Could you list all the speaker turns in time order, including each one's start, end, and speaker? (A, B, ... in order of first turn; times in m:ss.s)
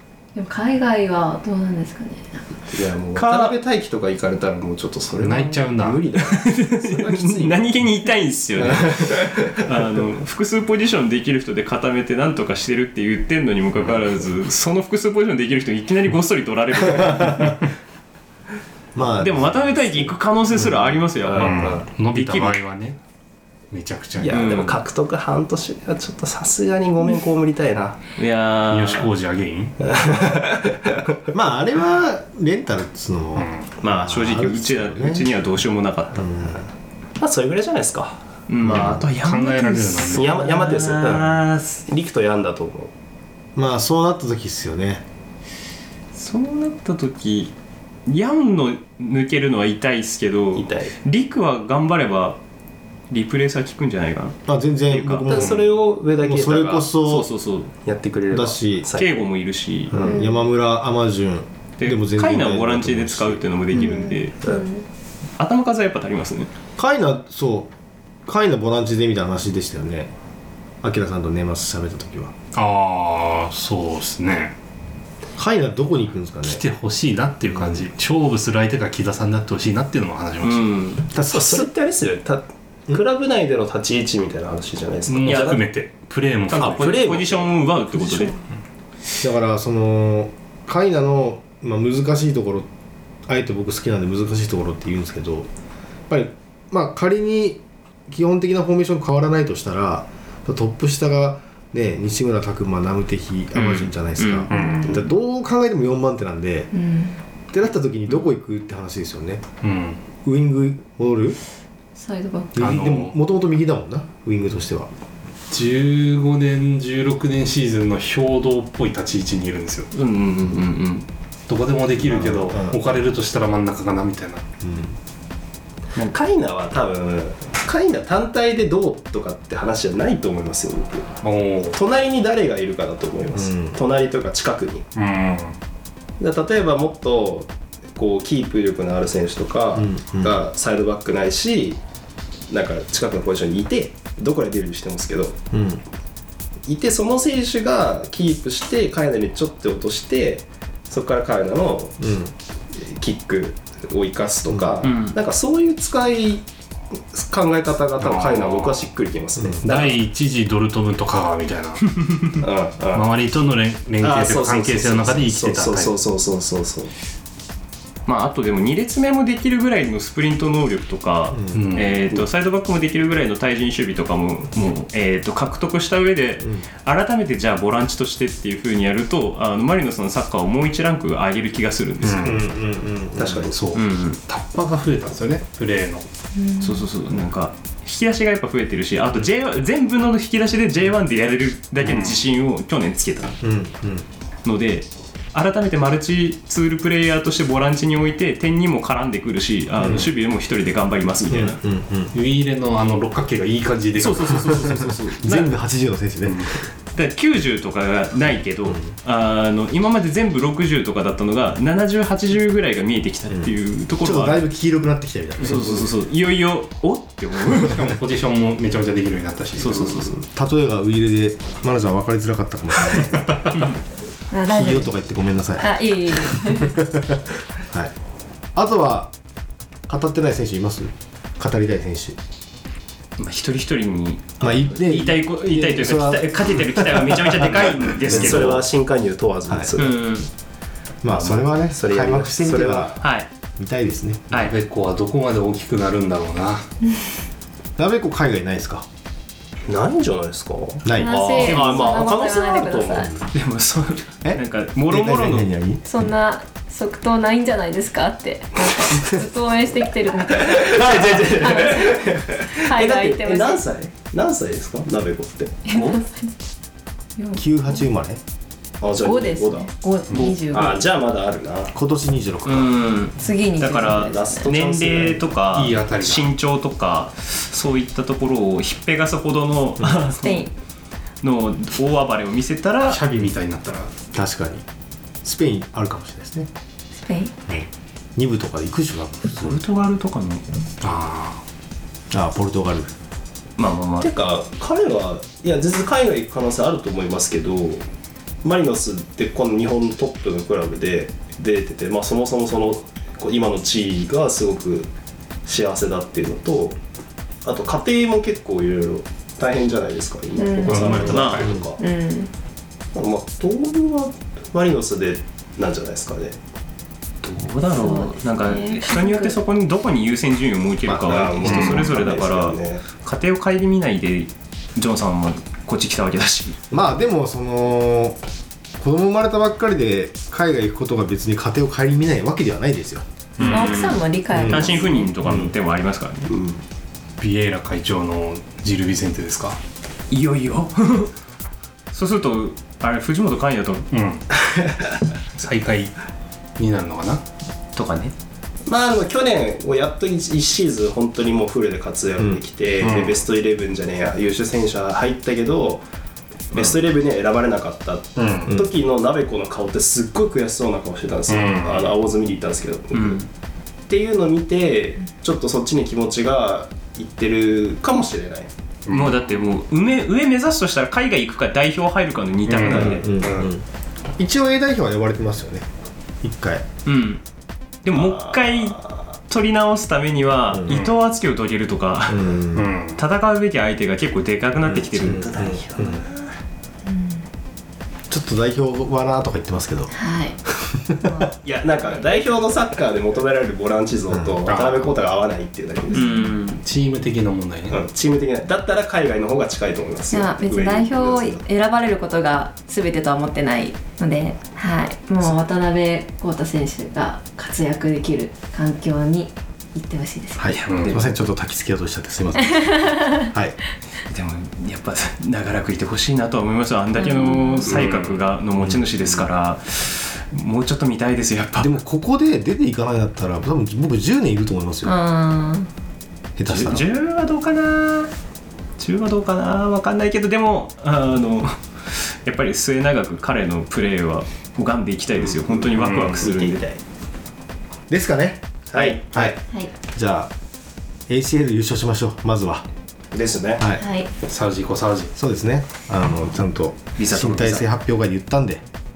0:00.3-0:02.4 A
0:02.7-0:07.6 B
0:03.1-0:03.6 C
0:05.2-0:06.1 D
0:06.2-0:17.6 C
0:08.6-0:09.7 B
0:18.9-0:20.8 E
0:19.2-0:22.6 C
0:21.2-0:21.8 B
0:21.4-0:23.0 D
0:23.7-0:24.4 D
0:24.2-0:28.0 B
0:24.3-0:24.8 C
0:28.2-0:29.1 C
0:28.7-0:30.1 D
0:29.8-0:31.2 B
0:31.3-0:35.3 E
0:33.4-0:33.7 D
0:33.8-0:36.4 C
0:36.1-0:36.6 E
0:37.2-0:39.0 B
0:38.5-0:41.8 C
0:38.6-0:40.3 D
0:40.0-0:42.9 B
0:43.5-0:45.0 E
0:46.1-0:47.5 C
0:48.1-0:52.4 C
0:50.5-0:50.9 B
0:53.1-0:54.4 C
0:54.4-0:55.6 E
0:54.9-0:55.5 C
0:55.3-0:56.9 B
0:56.2-0:57.3 E
0:57.0-0:57.7 C
0:57.8-0:59.2 B
0:58.3-0:58.9 E
0:58.9-0:59.9 C
0:59.9-1:00.2 B
0:59.9-1:03.4 E
1:00.1-1:00.4 A
1:01.8-1:04.4 C
1:03.7-1:04.8 A
1:05.4-1:06.5 C
1:06.8-1:07.7 E
1:08.2-1:10.1 E
1:10.8-1:12.3 E
1:12.5-1:14.5 D
1:15.4-1:16.6 E
1:16.4-1:20.8 D
1:17.5-1:17.9 E
1:20.4-1:21.0 C
1:21.1-1:21.7 E
1:21.3-1:25.6 B
1:25.1-1:27.0 D
1:25.2-1:25.6 C
1:26.5-1:28.4 C
1:26.5-1:27.6 B
1:29.2-1:32.7 E
1:33.3-1:35.5 E
1:36.1-1:46.7 E
1:43.5-1:44.5 C
1:44.5-1:44.9 D
1:44.5-1:45.1 A
1:46.7-1:47.2 A
1:47.5-1:49.4 E
1:49.6-1:50.0 D
1:50.2-1:51.4 E
1:52.0-1:52.6 A
1:52.5-1:54.9 E
1:52.6-1:53.1 D
1:55.5-1:59.9 D
1:59.9-2:01.0 C
2:01.5-2:04.4 D
2:02.0-2:02.8 E
2:04.6-2:05.0 E
2:06.0-2:11.1 B
2:11.2-2:11.8 D
2:11.7-2:14.9 B
2:13.3-2:13.8 E
2:15.0-2:15.6 D
2:16.2-2:21.8 B
2:19.7-2:20.4 E
2:22.5-2:25.4 B
2:25.5-2:25.8 E
2:26.7-2:32.0 B
2:32.0-2:32.3 E
2:32.7-2:36.4 B
2:34.5-2:34.9 E
2:34.8-2:35.2 C
2:37.0-2:40.0 B
2:38.0-2:38.9 D
2:39.4-2:39.6 E
2:39.6-2:41.8 D
2:41.9-2:42.3 C
2:42.4-2:43.1 B
2:42.9-2:45.9 D
2:44.0-2:46.9 B
2:48.0-3:02.4 C
2:51.3-2:51.6 E
2:51.5-2:52.0 D
3:02.0-3:02.4 D
3:02.2-3:03.5 E
3:03.2-3:03.5 B
3:03.5-3:06.0 D
3:03.7-3:04.2 C
3:06.4-3:06.8 A
3:06.6-3:13.4 C
3:11.8-3:12.2 D
3:13.4-3:14.0 E
3:14.4-3:21.6 C
3:19.8-3:20.1 E
3:21.3-3:22.1 E
3:22.1-3:24.5 D
3:24.0-3:25.5 C
3:24.7-3:26.6 E
3:26.9-3:34.4 C
3:34.0-3:35.9 E
3:35.4-3:37.8 C
3:37.6-3:39.9 D
3:39.6-3:40.2 C
3:40.2-3:43.6 E
3:42.9-3:43.6 D
3:44.3-3:44.9 A
3:44.5-3:47.9 E
3:45.6-3:46.8 A
3:48.5-3:49.1 E
3:49.9-3:52.2 E
3:53.2-3:58.6 C
3:54.4-3:58.5 E
3:58.1-4:00.0 B
3:59.8-4:00.3 C
4:01.0-4:03.0 E
4:01.1-4:03.0 B
4:03.0-4:03.3 C
4:03.6-4:04.4 E
4:04.3-4:06.6 D
4:07.8-4:08.8 E
4:09.7-4:13.1 B
4:10.8-4:11.4 E
4:11.0-4:13.1 A
4:11.4-4:11.8 C
4:13.3-4:15.5 C
4:14.2-4:15.8 E
4:15.8-4:23.6 A
4:20.3-4:25.6 B
4:25.6-4:26.4 A
4:25.7-4:26.0 C
4:27.2-4:27.8 A
4:27.4-4:28.2 E
4:28.8-4:29.7 B
4:29.0-4:30.8 A
4:30.1-4:30.4 D
4:30.4-4:31.7 B
4:31.7-4:32.7 E
4:32.4-4:40.4 C
4:33.2-4:34.5 A
4:33.8-4:35.4 B
4:35.5-4:36.3 D
4:39.8-4:40.0 E
4:40.2-4:40.5 A
4:41.2-4:43.0 C
4:42.9-4:43.9 D
4:44.1-4:44.6 E
4:45.2-4:46.5 E
4:47.0-4:47.3 A
4:47.5-4:49.6 E
4:49.4-4:50.4 C
4:50.8-4:51.4 D
4:52.1-4:52.9 E
4:53.6-4:54.1 C
4:54.0-4:57.8 B
4:58.4-5:04.9 B
5:05.4-5:06.8 B
5:07.4-5:11.8 B
5:10.4-5:11.0 A
5:10.6-5:11.6 D
5:11.0-5:11.5 C
5:11.4-5:11.7 E
5:11.8-5:12.3 A
5:12.9-5:16.4 B
5:17.2-5:26.6 C
5:17.8-5:19.4 A
5:20.8-5:21.6 E
5:21.0-5:22.8 B
5:21.4-5:21.8 D
5:26.7-5:28.2 E
5:28.8-5:33.0 E
5:33.4-5:36.3 C
5:33.4-5:33.8 D
5:33.4-5:35.1 A
5:34.3-5:34.8 E
5:36.3-5:36.6 B
5:37.2-5:39.6 D
5:40.1-5:41.1 C
5:41.9-5:43.8 C
5:43.9-5:44.2 D
5:45.4-5:45.9 D
5:46.6-5:47.2 D
5:47.8-5:48.1 C
5:48.7-5:55.8 B
5:52.8-5:53.2 D
5:56.5-6:03.2 B
5:58.2-5:58.6 D
6:01.3-6:01.8 D
6:02.9-6:03.3 C
6:03.9-6:08.5 B
6:08.9-6:09.2 D
6:08.9-6:13.0 C
6:12.4-6:13.5 D
6:12.7-6:13.1 B
6:12.8-6:13.6 E
6:14.2-6:15.7 E
6:16.2-6:16.6 E
6:16.8-6:17.2 C
6:17.8-6:22.4 C
6:17.9-6:18.9 B
6:20.5-6:20.8 E
6:20.7-6:20.9 D
6:22.1-6:22.7 E
6:22.5-6:23.0 D
6:23.0-6:25.4 C
6:24.6-6:26.0 E
6:24.9-6:26.3 B
6:26.9-6:27.2 A
6:28.1-6:29.9 E
6:29.9-6:30.4 A
6:30.4-6:31.0 E
6:31.0-6:31.3 A
6:31.4-6:36.1 B
6:31.8-6:32.4 A
6:34.1-6:34.4 E
6:34.4-6:34.8 D
6:35.9-6:36.3 A
6:35.9-6:36.6 C
6:36.6-6:37.8 D
6:37.7-6:41.4 B
6:40.1-6:50.6 A
6:50.4-6:53.6 E
6:50.6-6:51.1 C
6:50.7-6:51.0 D
6:52.5-6:53.2 A
6:54.1-7:01.7 C
6:57.0-6:57.7 A
6:57.6-6:58.2 D
6:58.6-6:59.0 E
7:01.6-7:04.9 E
7:04.8-7:05.7 A
7:06.4-7:06.8 E
7:06.4-7:08.1 C
7:08.8-7:16.6 C
7:15.5-7:16.8 B
7:15.7-7:16.2 D
7:17.9-7:18.4 E
7:18.7-7:19.4 B
7:19.9-7:20.3 E
7:21.1-7:22.6 E
7:23.1-7:23.7 B
7:23.8-7:24.1 A
7:24.2-7:25.1 D
7:25.1-7:28.6 E
7:27.0-7:27.6 C